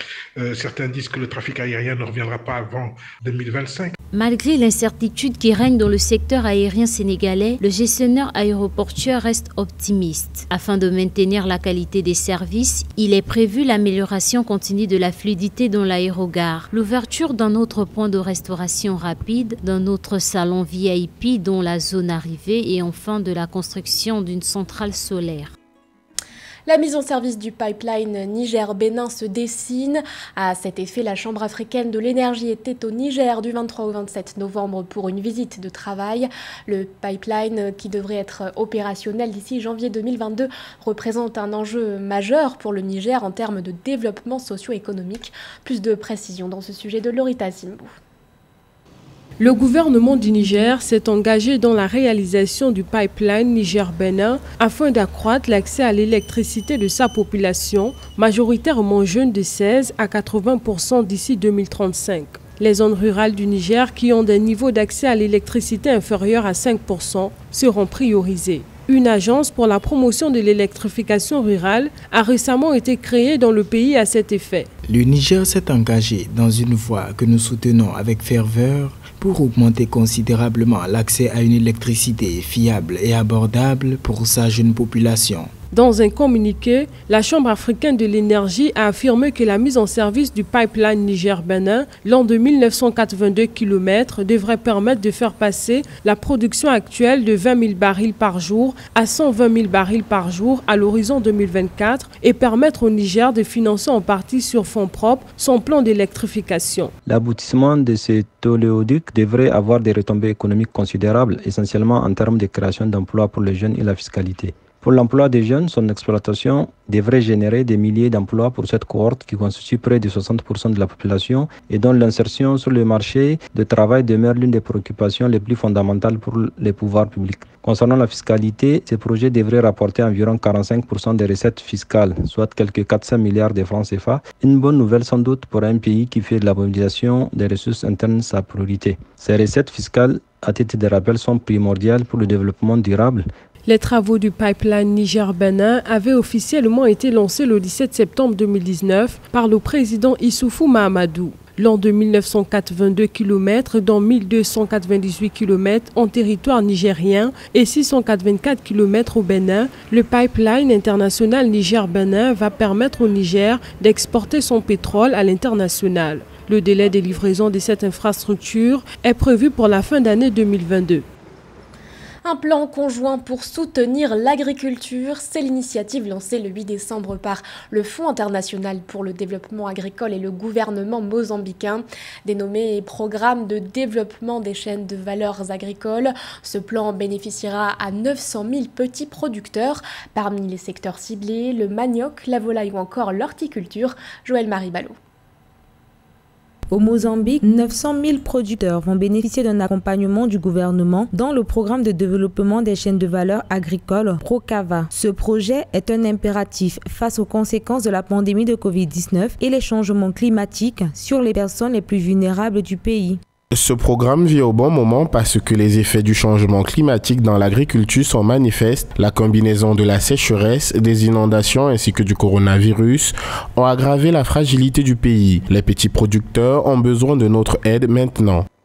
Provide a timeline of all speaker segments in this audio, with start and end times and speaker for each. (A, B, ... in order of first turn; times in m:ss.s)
0:00.4-0:03.9 A
0:04.1-0:25.5 B
0:26.6-0:47.9 C
0:49.4-1:14.7 D
1:14.9-1:25.5 E
1:25.7-1:46.9 D
1:47.1-2:23.2 F
2:23.6-2:51.0 D
2:52.2-3:15.0 C
3:16.7-3:33.2 G
3:33.5-3:48.4 H